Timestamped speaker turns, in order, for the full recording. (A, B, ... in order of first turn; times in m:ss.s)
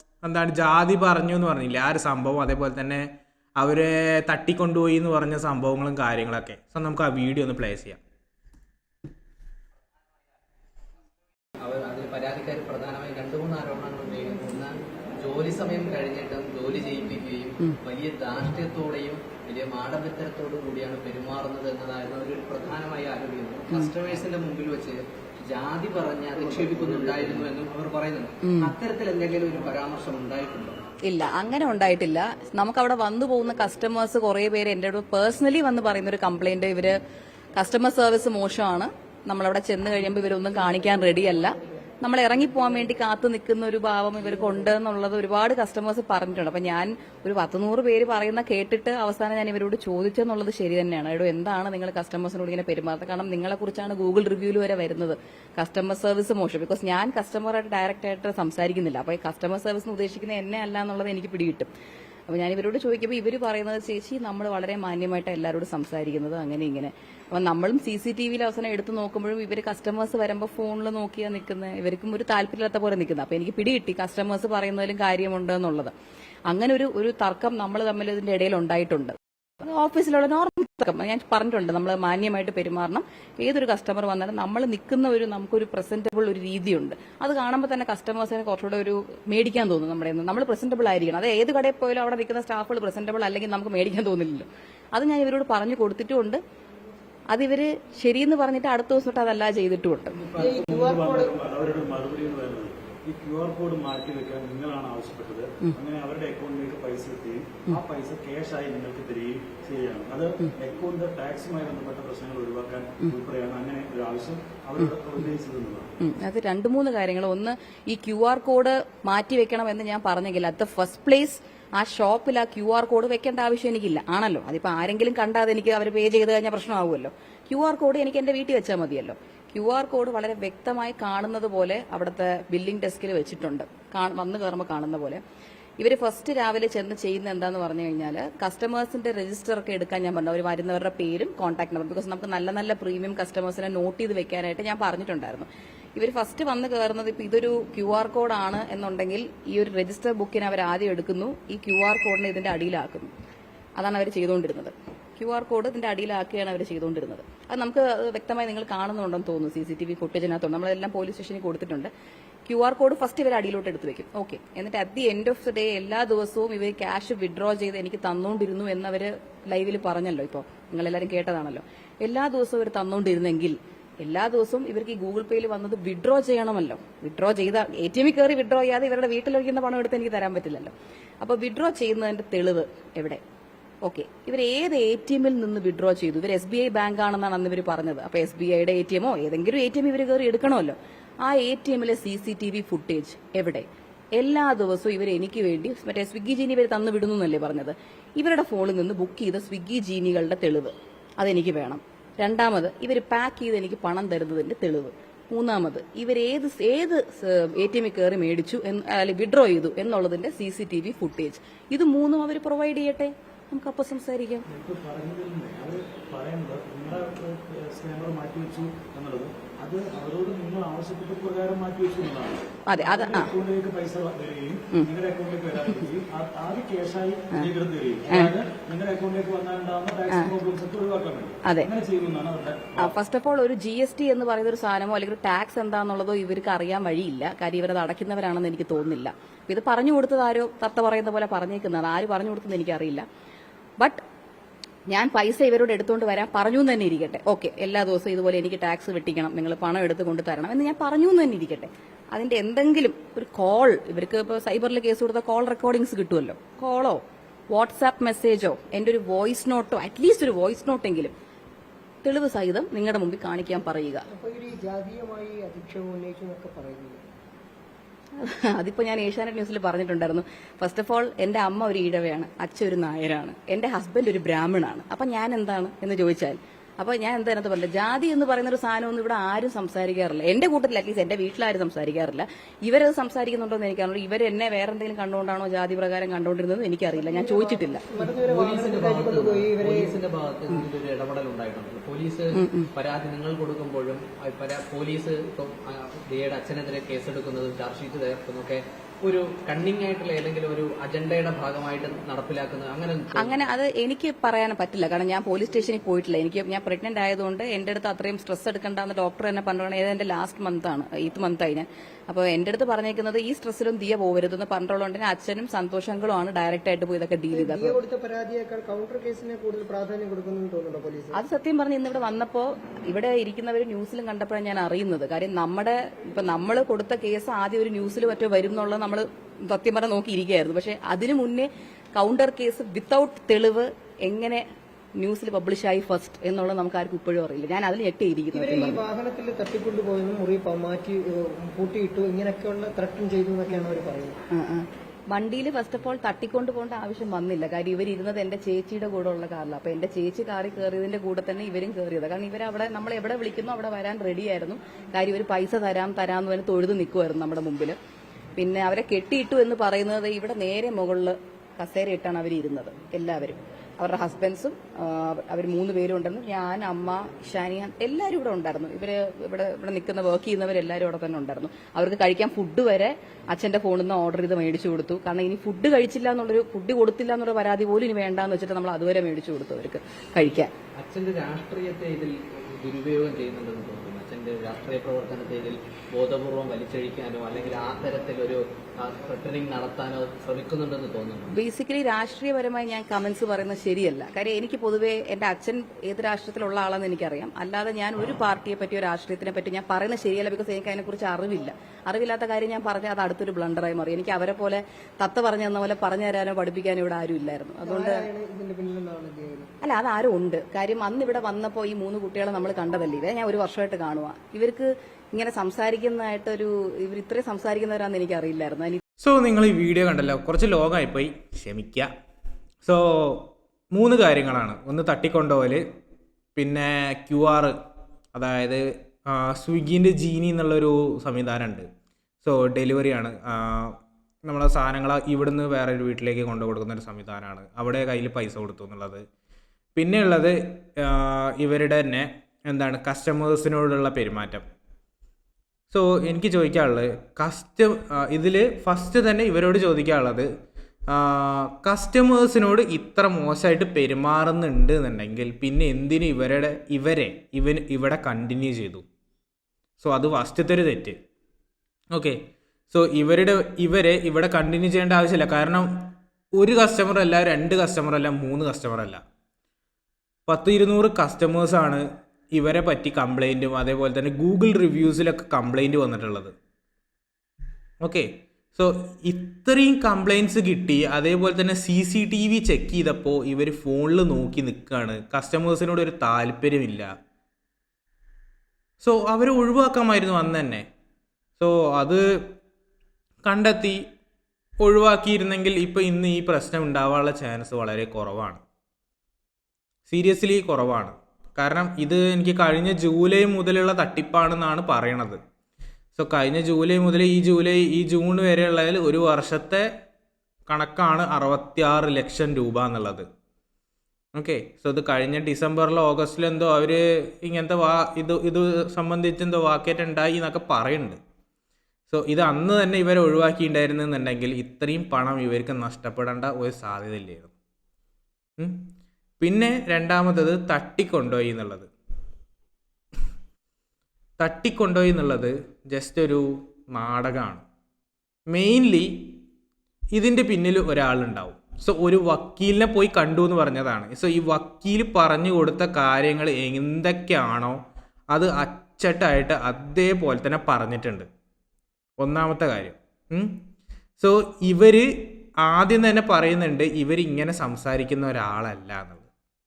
0:00.2-0:08.0 A
0:11.6-0:30.8 B
0:28.4-0:28.7 C
0:31.0-0:37.0 C
0:37.6-1:01.7 C
1:02.3-1:15.9 C
1:16.5-1:36.4 C
1:37.3-1:40.2 C
1:40.2-1:55.9 D
1:40.4-1:41.3 E
1:56.0-2:15.2 C
2:15.8-2:33.1 C
2:33.8-2:41.9 C
2:42.5-3:03.2 C
3:03.8-3:13.6 C
3:14.2-3:34.4 C
3:34.5-3:52.9 D
3:42.7-3:43.3 C
3:48.1-3:48.3 C
3:51.4-3:51.7 C
3:52.8-4:03.0 C
4:04.9-4:21.1 C
4:22.0-4:24.0 C
4:24.1-4:27.0 E
4:28.2-4:47.8 C
4:46.9-4:49.9 E
4:48.0-5:03.4 B
4:52.4-4:52.7 C
5:03.2-5:17.8 C
5:17.3-5:21.2 E
5:21.1-5:34.4 C
5:35.0-5:38.8 C
5:38.3-5:44.2 E
5:44.3-5:57.8 C
5:58.4-6:20.5 C
6:20.8-6:31.3 B
6:31.3-6:48.1 C
6:47.6-6:49.5 E
6:49.6-6:58.8 C
6:59.0-7:01.9 A
7:02.6-7:05.6 A
7:06.4-7:07.5 A
7:08.1-7:11.7 A
7:12.2-7:19.0 A
7:19.8-7:24.4 A
7:25.7-7:30.3 A
7:30.9-7:38.8 A
7:39.8-7:41.0 A
7:41.9-7:42.2 A
7:42.7-7:45.7 A
7:46.4-7:49.0 A
7:50.3-7:56.3 A
7:57.8-8:06.9 A
8:08.8-8:10.6 A
8:11.4-8:12.1 A
8:13.2-8:13.8 A
8:14.6-8:18.4 A
8:19.9-8:25.2 A
8:25.9-8:29.7 A
8:30.5-8:33.1 A
8:34.1-8:41.0 A
8:41.9-8:47.3 A
8:49.2-8:51.7 A
8:54.2-8:57.4 A
8:58.3-8:59.1 A
8:59.9-9:07.6 A
9:08.1-9:11.1 A
9:12.0-9:13.4 A
9:14.0-9:14.9 A
9:15.4-9:19.0 A